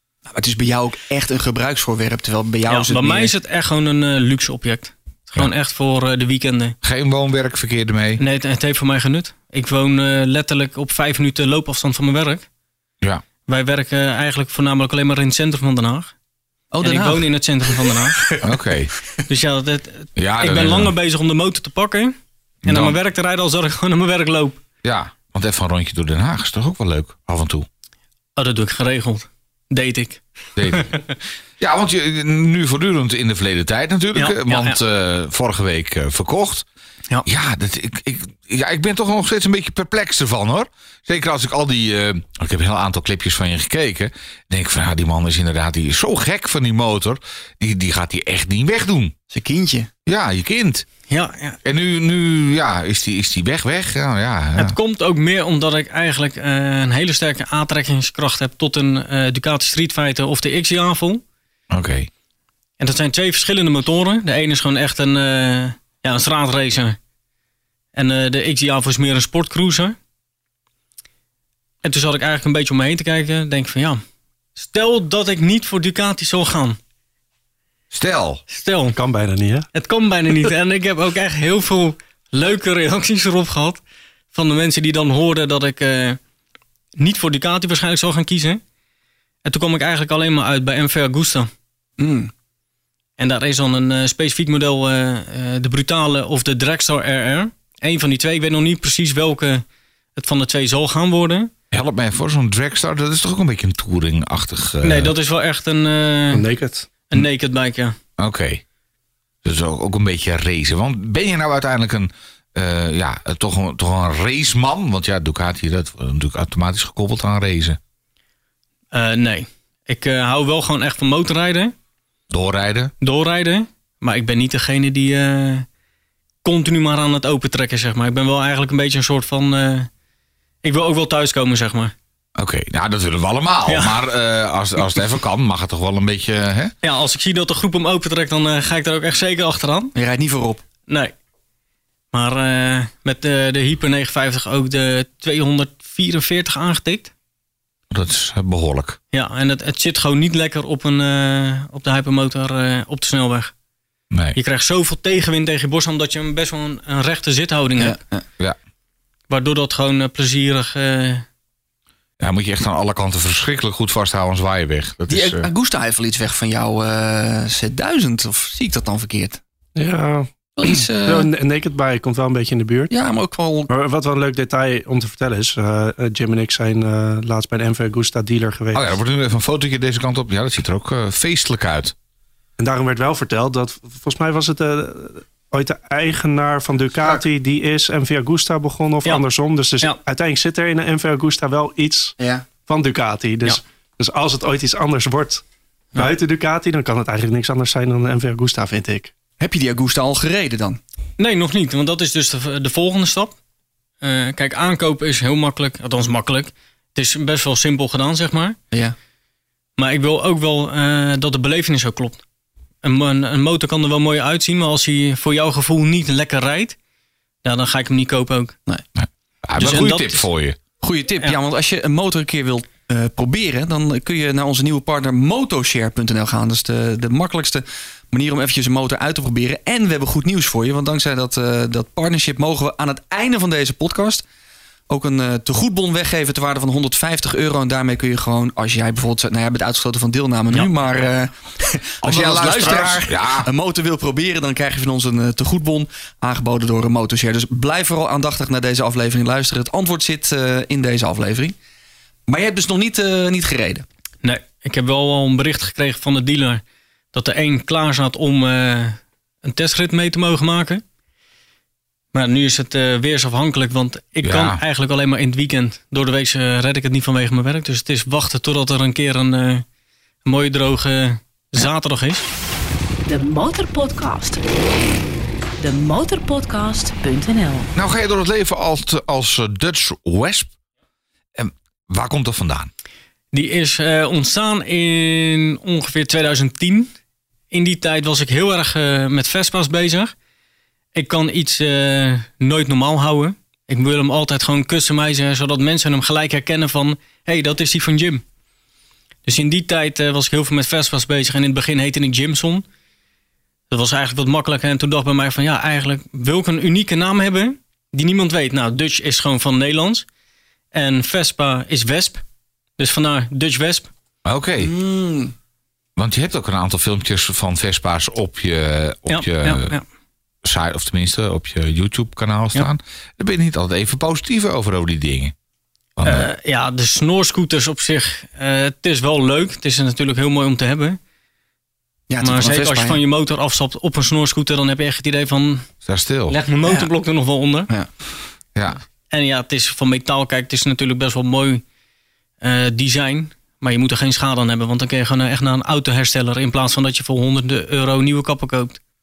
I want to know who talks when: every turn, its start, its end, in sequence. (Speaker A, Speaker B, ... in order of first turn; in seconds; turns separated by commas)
Speaker A: 0.3-3.3, Speaker B: 2.7-6.8, Speaker C: 6.8-8.2, Speaker B: 8.2-12.4, Speaker B: 13.5-16.1, Speaker A: 16.7-17.3, Speaker B: 16.8-18.3, Speaker C: 18.4-18.9, Speaker B: 19.3-22.1, Speaker C: 20.2-20.9, Speaker C: 22.6-23.0, Speaker B: 22.7-24.6, Speaker C: 24.8-27.7, Speaker B: 28.4-31.0, Speaker C: 30.6-30.9, Speaker C: 31.6-36.7, Speaker B: 34.1-34.8, Speaker C: 37.2-49.1, Speaker A: 49.3-49.9, Speaker C: 50.1-50.9, Speaker B: 51.1-51.6, Speaker C: 51.6-54.8, Speaker B: 54.6-61.2, Speaker C: 61.7-62.1, Speaker B: 62.8-67.0, Speaker B: 68.0-70.0, Speaker B: 71.8-74.0, Speaker B: 74.6-76.8, Speaker C: 77.9-78.4, Speaker B: 78.5-79.0, Speaker D: 79.0-79.7, Speaker B: 79.7-83.8, Speaker B: 84.3-86.2, Speaker B: 87.0-88.6, Speaker B: 89.4-91.5, Speaker A: 92.0-92.3, Speaker B: 93.2-99.6, Speaker B: 100.2-101.5, Speaker C: 101.7-105.1, Speaker B: 104.8-106.5, Speaker D: 106.3-106.9, Speaker B: 107.1-108.0, Speaker C: 108.2-108.6, Speaker C: 109.4-117.8, Speaker B: 118.9-121.7, Speaker C: 122.3-122.9, Speaker B: 123.0-125.7, Speaker B: 126.4-129.9, Speaker B: 130.6-131.9, Speaker C: 132.4-136.7, Speaker B: 133.7-134.0, Speaker B: 136.8-139.9, Speaker A: 139.9-140.6, Speaker B: 142.1-147.1, Speaker C: 147.9-149.0, Speaker B: 149.1-153.5, Speaker C: 154.1-154.4, Speaker B: 154.3-158.0, Speaker A: 157.8-158.2, Speaker B: 159.3-161.2, Speaker C: 162.2-165.5, Speaker A: 165.1-169.4, Speaker D: 169.8-172.9, Speaker A: 170.6-171.3, Speaker A: 172.9-173.7, Speaker D: 173.7-178.9, Speaker C: 178.7-181.9, Speaker D: 182.6-195.4, Speaker A: 192.2-192.5, Speaker D: 195.9-199.1, Speaker A: 199.4-200.8, Speaker B: 201.2-203.3, Speaker B: 204.0-208.6, Speaker B: 209.8-212.2, Speaker B: 212.8-216.8, Speaker B: 217.4-218.6, Speaker C: 219.0-220.6, Speaker B: 219.6-220.2, Speaker A: 220.8-234.2, Speaker A: 234.9-251.6, Speaker C: 242.0-243.5, Speaker A: 252.3-253.9, Speaker B: 254.2-260.8, Speaker B: 262.1-269.6, Speaker C: 264.2-264.6, Speaker B: 270.2-272.2, Speaker E: 273.1-274.4, Speaker E: 275.6-277.7, Speaker C: 277.8-280.5, Speaker C: 281.4-282.7, Speaker B: 283.3-286.9, Speaker B: 287.5-290.1, Speaker B: 290.9-298.2, Speaker B: 299.3-302.6, Speaker B: 303.7-310.1, Speaker B: 310.7-312.2, Speaker B: 312.8-313.9, Speaker C: 314.2-314.7, Speaker A: 314.6-315.3, Speaker C: 316.0-319.8, Speaker B: 319.1-319.8, Speaker C: 320.4-325.3, Speaker C: 326.0-326.3, Speaker B: 326.0-331.0, Speaker A: 332.1-333.0, Speaker B: 332.2-335.7, Speaker C: 335.9-336.4, Speaker B: 336.3-337.7, Speaker C: 338.6-338.8, Speaker B: 339.1-341.6, Speaker B: 342.4-348.8